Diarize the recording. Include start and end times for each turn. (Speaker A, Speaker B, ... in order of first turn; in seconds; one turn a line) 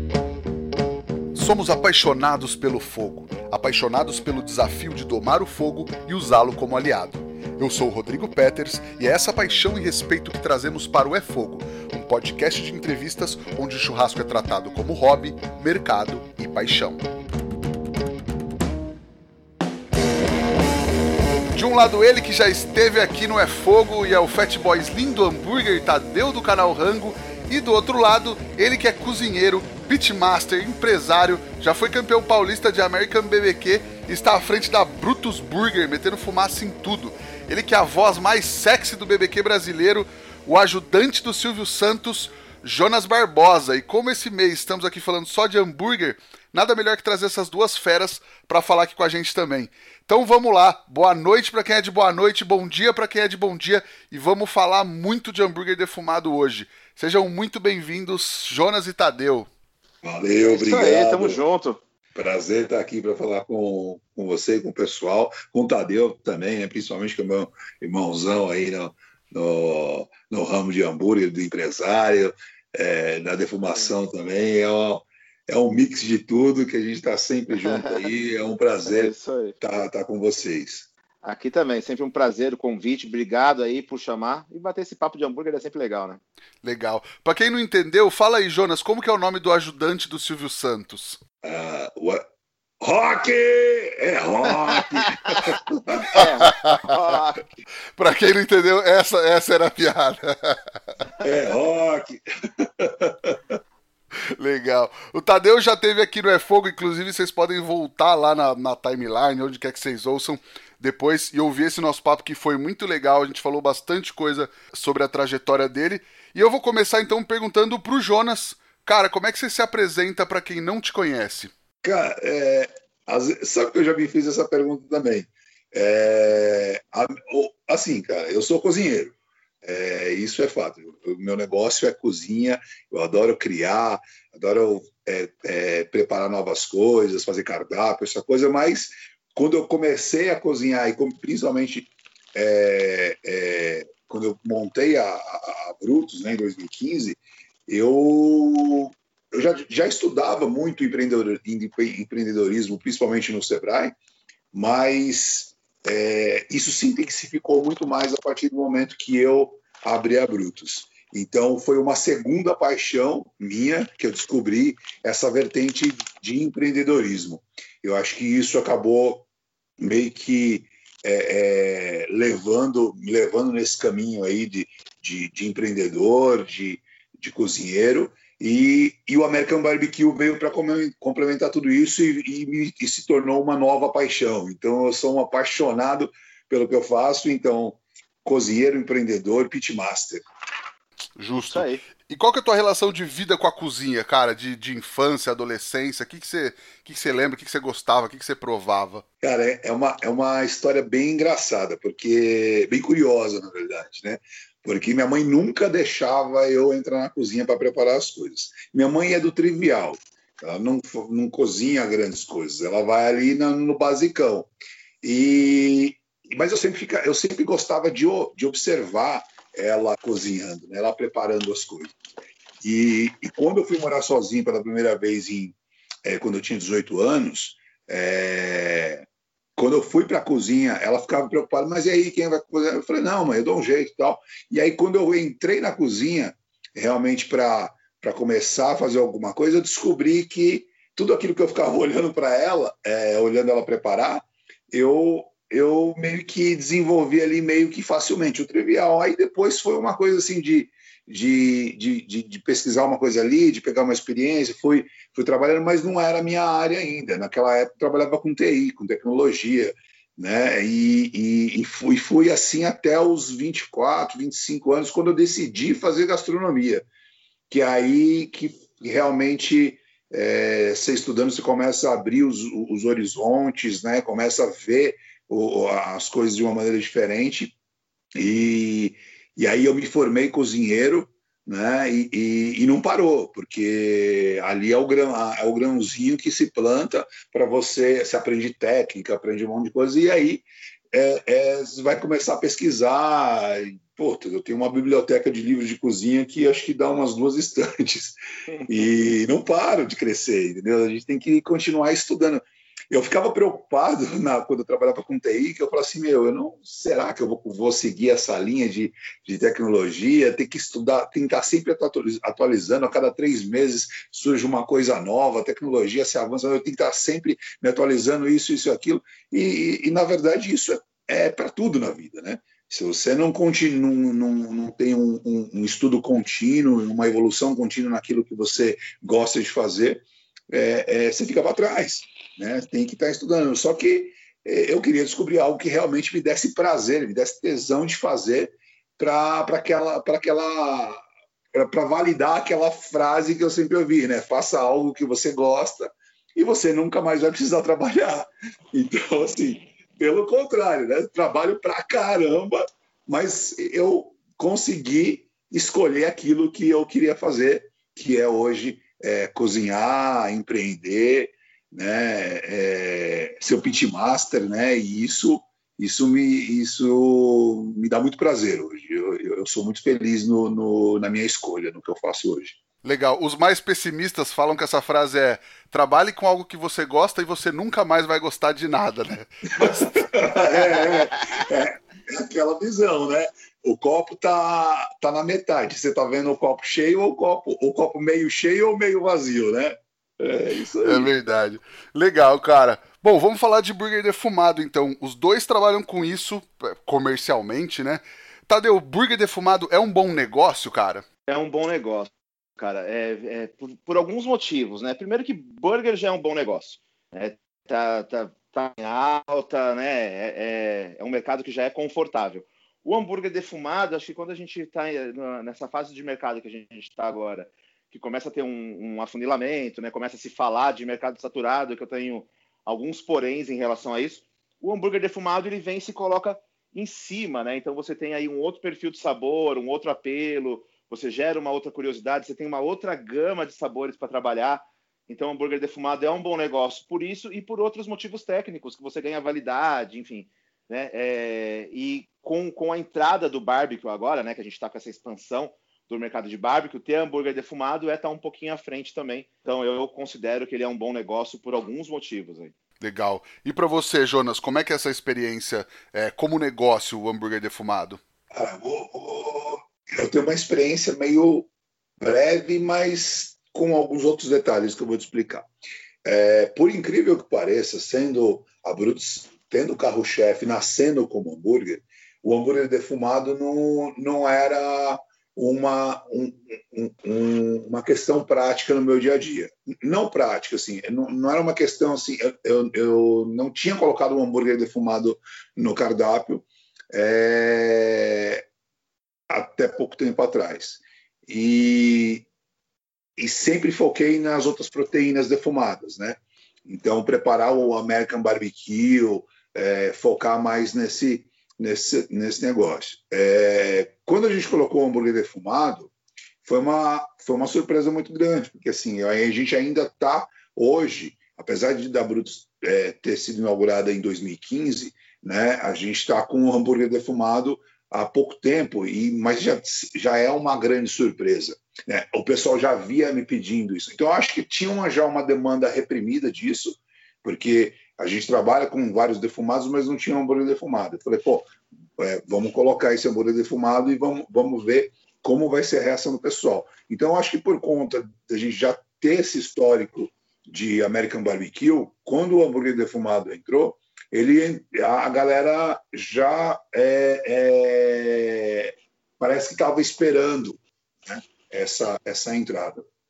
Speaker A: 1.3-17.0
Speaker A: 21.5-59.5
Speaker B: 60.0-61.4
Speaker C: 60.4-61.8
Speaker B: 62.1-80.9
Speaker C: 73.7-73.9
Speaker C: 77.5-78.1
Speaker C: 78.8-79.5
Speaker C: 81.2-86.2
Speaker A: 86.6-91.2
Speaker B: 91.4-92.3
Speaker B: 92.8-96.3
Speaker C: 94.4-97.5
Speaker A: 96.2-96.9
Speaker A: 98.0-100.6
Speaker B: 101.2-103.4
Speaker A: 104.3-121.5
Speaker B: 121.8-153.9
Speaker B: 154.5-169.3
Speaker B: 169.8-190.2
Speaker A: 191.2-199.0
Speaker C: 191.5-191.8
Speaker B: 199.2-222.0
Speaker B: 222.6-266.9
Speaker B: 267.5-277.5
Speaker B: 278.1-341.0
Speaker B: 341.5-372.6
Speaker A: 372.8-380.2
Speaker B: 379.6-391.1
Speaker C: 380.7-381.4
Speaker A: 390.8-401.0
Speaker C: 401.3-452.5
Speaker A: 452.8-458.0
Speaker B: 458.3-461.5
Speaker B: 462.0-465.5
Speaker B: 466.0-488.5
Speaker B: 489.3-492.2
Speaker B: 493.2-505.9
Speaker B: 506.4-552.9